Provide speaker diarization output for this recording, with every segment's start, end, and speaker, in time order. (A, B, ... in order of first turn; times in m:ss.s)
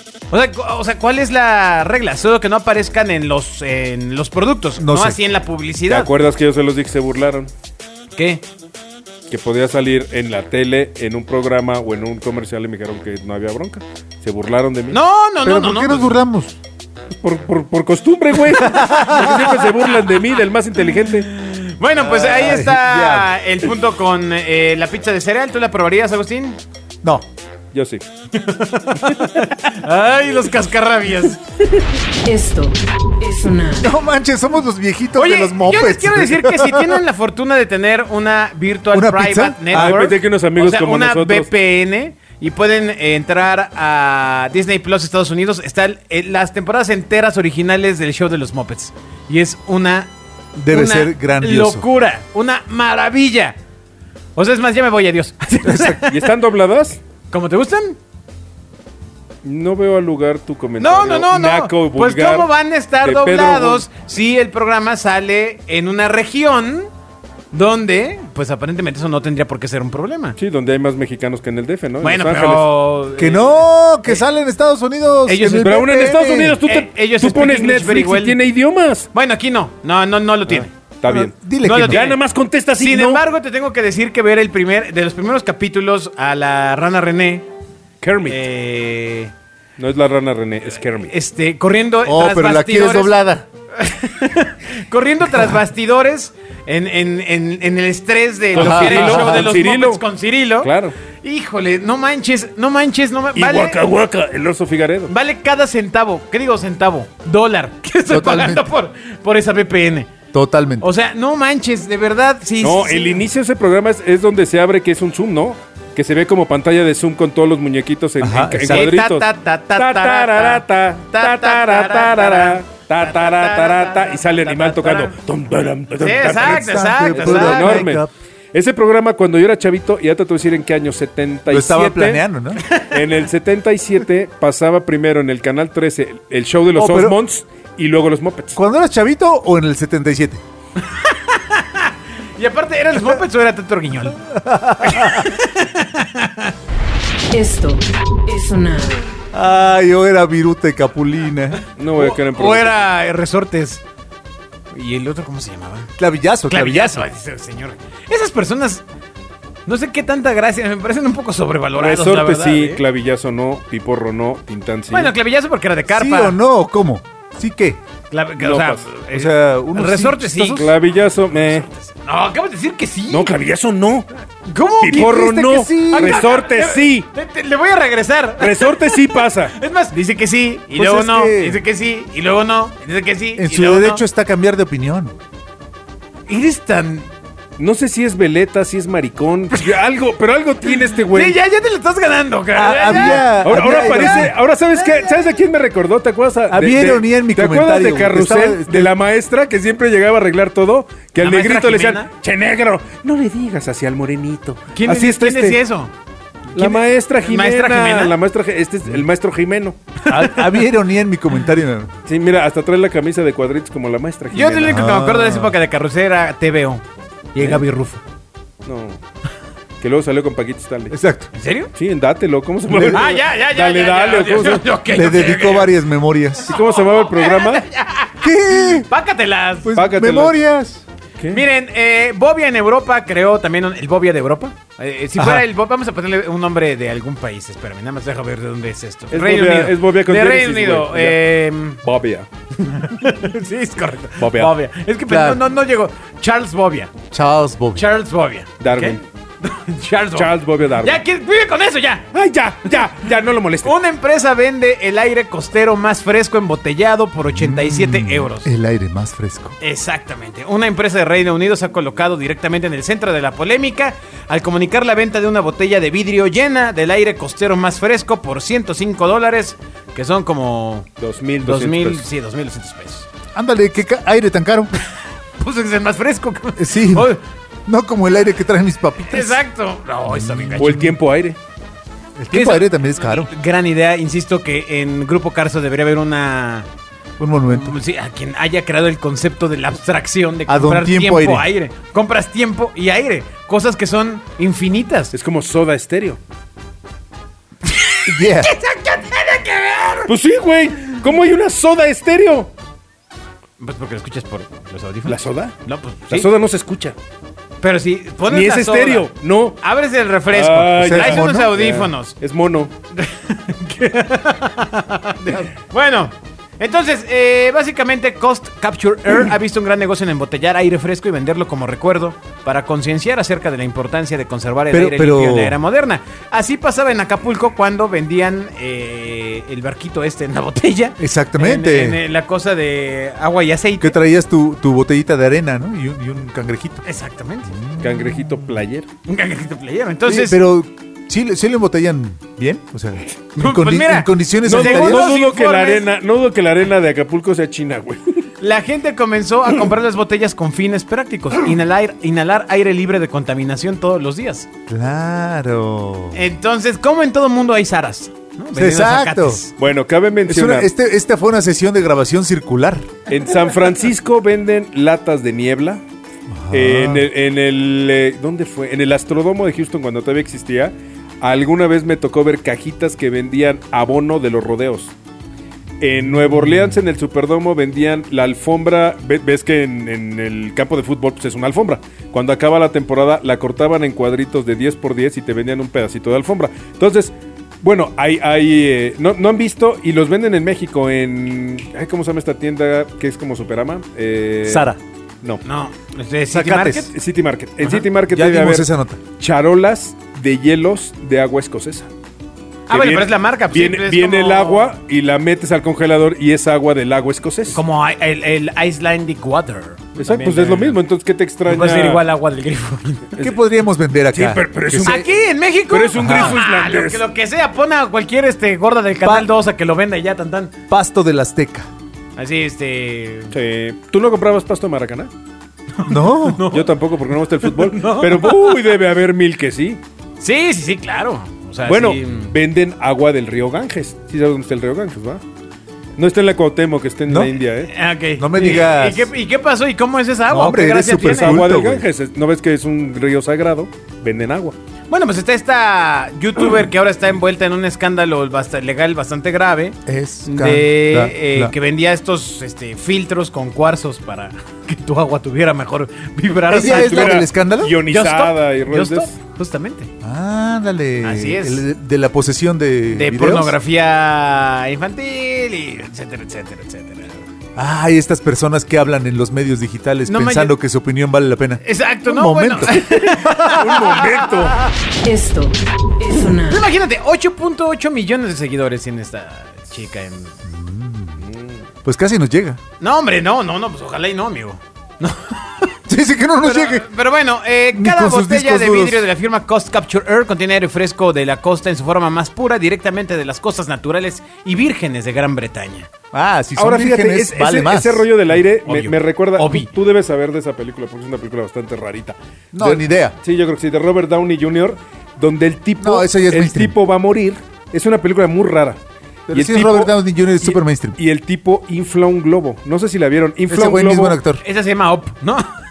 0:00.3-0:06.1 A
0:04.8-0:05.2 B
0:05.9-0:07.5 C
0:08.2-0:08.4 A
0:09.3-0:15.0 C
0:14.9-0:16.2 A
0:15.4-0:16.6 B
0:17.2-0:21.3 C
0:18.6-0:20.1 A
0:18.7-0:19.4 B
0:21.3-0:26.6 A
0:22.0-0:23.3 B
0:27.7-0:28.0 C
0:28.3-0:31.4 A
0:32.2-0:33.9 D
0:33.8-0:37.0 B
0:35.2-0:50.1 A
0:38.9-0:40.0 B
0:39.7-0:41.5 C
0:50.6-0:51.9 B
0:50.7-0:53.6 A
0:54.4-0:56.3 A
0:55.6-0:56.0 B
0:56.1-0:57.0 C
0:57.3-0:58.0 A
0:59.4-1:03.8 C
1:00.8-1:06.9 A
1:07.5-1:10.4 A
1:10.4-1:12.7 C
1:12.0-1:14.2 A
1:13.2-1:16.6 B
1:15.3-1:15.9 A
1:15.5-1:19.1 C
1:16.6-1:18.4 A
1:19.1-1:20.7 A
1:20.5-1:23.2 C
1:21.1-1:22.1 B
1:21.6-1:22.2 A
1:22.8-1:27.5 A
1:28.0-1:28.4 C
1:28.2-1:29.3 A
1:29.8-1:31.1 C
1:31.0-1:33.2 A
1:32.0-1:33.5 B
1:33.8-1:43.8 A
1:38.6-1:40.0 C
1:38.6-1:39.5 B
1:40.6-1:41.0 C
1:43.4-1:45.1 C
1:45.1-1:50.1 A
1:48.1-1:48.7 B
1:50.3-1:50.9 B
1:50.8-1:53.2 A
1:52.6-2:12.2 C
1:58.2-1:58.9 B
1:58.7-2:05.1 A
2:06.0-2:07.9 A
2:06.4-2:08.1 B
2:11.5-2:12.6 B
2:12.6-2:12.9 A
2:12.8-2:18.6 C
2:16.8-2:17.2 B
2:18.6-2:20.4 B
2:20.8-2:24.2 A
2:24.3-2:25.3 B
2:24.8-2:26.5 A
2:27.3-2:29.0 D
2:29.3-2:31.6 B
2:31.8-2:32.7 C
2:32.0-2:33.8 A
2:34.7-2:35.9 A
2:36.0-2:37.1 B
2:36.5-2:38.8 A
2:39.7-2:42.8 A
2:41.8-2:45.1 C
2:44.9-2:46.4 A
2:45.9-2:47.8 B
2:48.1-2:50.7 A
2:48.4-2:49.0 C
2:49.1-2:50.3 B
2:50.3-2:51.7 C
2:51.5-2:53.3 A
2:53.1-2:54.2 C
2:54.4-2:55.1 A
2:54.8-2:57.1 C
2:54.9-2:56.2 B
2:55.9-3:04.0 A
2:58.4-2:59.6 C
3:00.7-3:01.6 B
3:03.4-3:05.1 B
3:06.3-3:07.1 A
3:07.6-3:11.4 C
3:10.9-3:14.3 A
3:12.5-3:14.3 B
3:13.0-3:25.6 C
3:14.8-3:15.3 A
3:16.5-3:18.9 B
3:21.2-3:22.1 A
3:24.7-3:25.9 A
3:26.5-3:28.2 A
3:26.5-3:29.8 C
3:30.0-3:30.6 A
3:30.1-3:31.9 B
3:32.1-3:34.8 C
3:34.3-3:36.8 A
3:34.6-3:35.6 B
3:37.3-3:38.0 A
3:38.6-3:39.0 C
3:39.8-3:41.0 C
3:40.9-3:41.3 B
3:41.3-3:41.7 A
3:41.8-3:44.7 C
3:42.7-3:43.1 B
3:42.9-3:45.8 A
3:44.9-3:46.5 B
3:46.5-3:47.6 C
3:46.5-3:49.7 A
3:48.2-3:48.9 B
3:49.6-3:50.8 B
3:49.8-3:50.4 C
3:51.2-3:51.4 C
3:51.3-4:01.8 A
3:59.1-4:01.2 C
4:01.8-4:02.3 C
4:02.6-4:06.9 A
4:04.2-4:04.5 C
4:05.1-4:05.4 B
4:07.1-4:07.8 B
4:07.8-4:12.1 A
4:08.6-4:09.0 C
4:10.2-4:11.0 C
4:12.1-4:13.7 C
4:13.6-4:18.5 A
4:17.3-4:19.6 B
4:19.6-4:30.9 A
4:31.0-4:32.0 C
4:31.4-4:33.1 A
4:33.4-4:34.8 B
4:35.4-4:37.2 A
4:36.6-4:37.1 B
4:37.7-4:39.4 B
4:39.1-4:40.9 A
4:40.1-4:40.8 B
4:40.6-4:41.4 C
4:42.2-4:43.3 B
4:42.3-4:46.7 A
4:47.2-4:47.8 B
4:47.5-4:55.1 A
4:50.5-4:51.5 B
4:55.1-4:56.2 C
4:57.6-5:00.1 A
4:58.1-4:58.5 B
5:00.1-5:02.5 C
5:03.6-5:06.3 A
5:05.1-5:05.6 C
5:06.1-5:07.0 C
5:07.6-5:09.1 A
5:08.3-5:09.6 C
5:09.6-5:12.2 A
5:10.3-5:12.7 C
5:10.8-5:11.5 B
5:13.0-5:34.0 A
5:24.7-5:25.6 B
5:31.0-5:32.0 B
5:33.8-5:36.8 B
5:36.8-5:37.6 A
5:37.5-5:38.3 B
5:37.8-5:38.9 C
5:39.1-5:40.4 A
5:40.1-5:45.1 B
5:43.4-5:45.9 A
5:44.4-5:48.2 C
5:48.4-5:54.5 A
5:54.7-5:56.2 B
5:56.1-5:59.5 A
5:58.6-5:59.4 B
5:59.6-6:00.7 C
6:00.3-6:02.9 B
6:03.1-6:05.8 C
6:06.3-6:07.1 B
6:06.5-6:14.9 C
6:15.8-6:35.4 C
6:16.1-6:16.8 B
6:34.5-6:34.8 B
6:35.4-6:36.9 A
6:36.3-6:36.9 B
6:36.9-6:38.7 C
6:38.1-6:39.0 B
6:39.2-6:41.9 C
6:42.7-6:44.7 A
6:42.7-6:47.6 C
6:47.5-6:50.8 A
6:50.0-6:52.0 C
6:51.5-6:53.1 A
6:53.2-6:55.0 B
6:54.1-6:55.1 C
6:54.8-7:00.5 A
6:55.7-6:57.0 C
6:56.0-6:56.4 B
6:59.0-6:59.3 B
7:00.7-7:01.7 B
7:02.2-7:03.3 A
7:03.3-7:05.1 C
7:05.8-7:06.7 A
7:05.9-7:06.4 B
7:06.5-7:09.8 C
7:07.4-7:08.6 A
7:10.2-7:12.3 A
7:11.6-7:15.2 C
7:16.0-7:17.7 C
7:17.1-7:17.3 B
7:17.7-7:21.4 A
7:18.2-7:19.1 B
7:20.3-7:21.8 B
7:21.0-7:24.6 C
7:24.9-7:37.2 A
7:29.9-7:31.5 B
7:36.5-7:37.8 B
7:36.6-7:39.1 C
7:37.9-7:39.9 A
7:40.0-7:43.6 B
7:41.0-7:41.6 A
7:42.9-7:47.3 A
7:47.6-7:53.0 B
7:50.1-7:50.5 A
7:51.6-7:54.2 A
7:52.7-7:54.6 C
7:55.0-7:56.7 D
7:56.4-8:00.3 A
8:00.4-8:01.2 B
8:01.2-8:01.6 C
8:01.8-8:02.6 B
8:02.8-8:05.8 A
8:05.9-8:06.9 B
8:06.4-8:15.9 A
8:07.7-8:09.1 B
8:16.1-8:18.1 B
8:16.6-8:28.8 C
8:18.6-8:19.7 A
8:22.5-8:23.2 B
8:25.8-8:26.8 B
8:29.3-8:31.0 B
8:29.3-8:34.2 C
8:33.5-8:34.4 B
8:34.4-8:35.5 A